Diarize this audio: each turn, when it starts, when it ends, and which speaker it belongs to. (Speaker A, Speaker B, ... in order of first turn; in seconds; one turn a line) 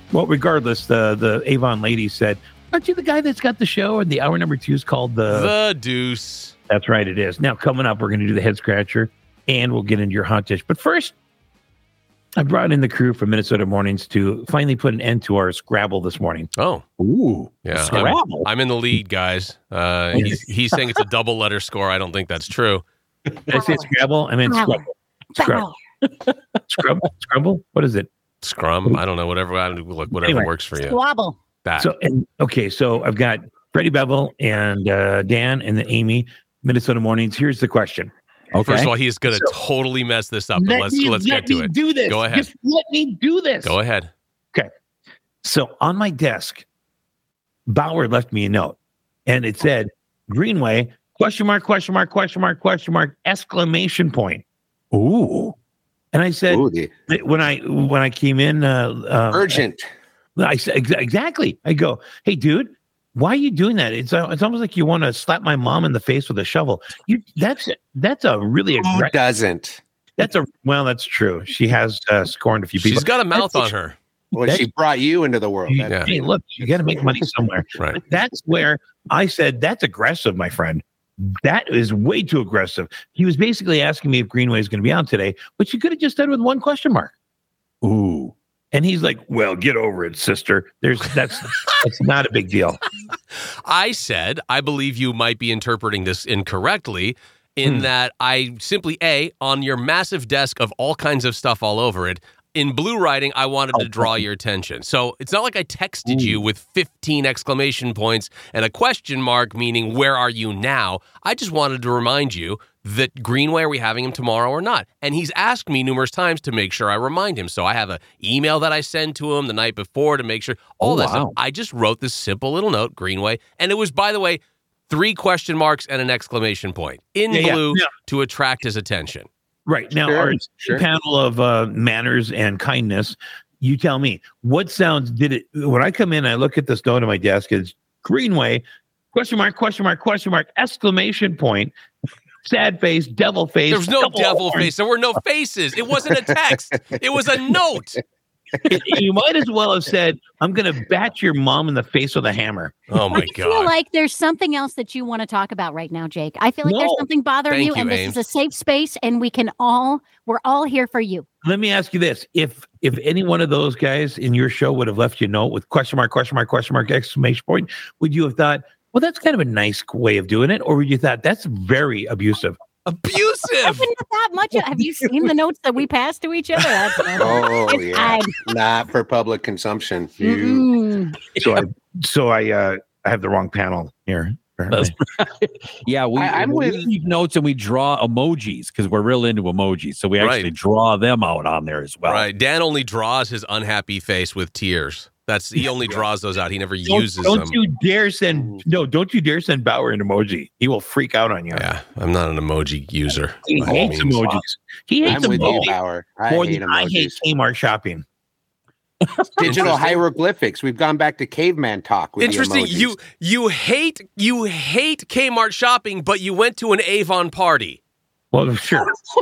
Speaker A: 0.1-5.5
Speaker B: 5.3-6.5
Speaker A: 6.7-11.1
Speaker A: 12.4-16.5
Speaker B: 16.6-16.8
Speaker C: 17.0-18.5
Speaker B: 17.6-22.8
Speaker A: 20.1-20.4
Speaker D: 23.5-23.9
Speaker A: 23.5-25.7
Speaker D: 24.4-25.8
Speaker A: 26.7-28.1
Speaker B: 28.4-31.0
Speaker A: 30.1-30.5
Speaker D: 30.8-31.4
Speaker B: 31.6-31.9
Speaker A: 31.8-38.1
Speaker C: 38.5-38.9
Speaker B: 38.6-42.5
Speaker A: 39.3-39.5
Speaker A: 40.5-43.8
Speaker B: 43.6-44.1
Speaker A: 45.4-46.6
Speaker A: 47.7-54.4
Speaker A: 54.9-55.4
Speaker A: 56.1-59.6
Speaker E: 56.5-56.9
Speaker E: 59.3-59.9
Speaker A: 60.4-69.1
Speaker E: 68.8-69.8
Speaker A: 70.2-73.7
Speaker B: 72.8-74.0
Speaker E: 74.3-77.2
Speaker A: 74.4-74.7
Speaker A: 75.7-87.1
Speaker C: 87.8-88.3
Speaker A: 88.7-92.8
Speaker B: 93.6-129.3
Speaker A: 97.6-97.9
Speaker A: 103.7-104.2
Speaker C: 120.8-121.3
Speaker A: 127.3-127.9
Speaker A: 129.7-141.7
Speaker E: 129.9-130.8
Speaker A: 142.4-144.7
Speaker B: 143.7-148.0
Speaker E: 145.9-147.0
Speaker A: 148.7-152.8
Speaker B: 152.9-153.7
Speaker D: 153.1-161.2
Speaker A: 156.6-157.1
Speaker B: 157.5-158.2
Speaker A: 161.4-172.6
Speaker B: 172.8-173.9
Speaker D: 173.6-178.3
Speaker B: 176.6-177.1
Speaker E: 177.2-180.7
Speaker D: 180.2-181.2
Speaker C: 181.3-181.6
Speaker A: 181.4-184.9
Speaker C: 184.7-192.2
Speaker E: 186.1-186.9
Speaker B: 190.2-190.5
Speaker B: 192.1-197.6
Speaker A: 196.8-201.7
Speaker E: 198.3-198.6
Speaker B: 201.5-204.4
Speaker A: 203.4-205.8
Speaker E: 205.1-207.2
Speaker C: 205.1-205.4
Speaker A: 206.3-208.0
Speaker B: 209.4-210.0
Speaker E: 209.4-212.9
Speaker B: 212.2-217.8
Speaker A: 218.3-218.9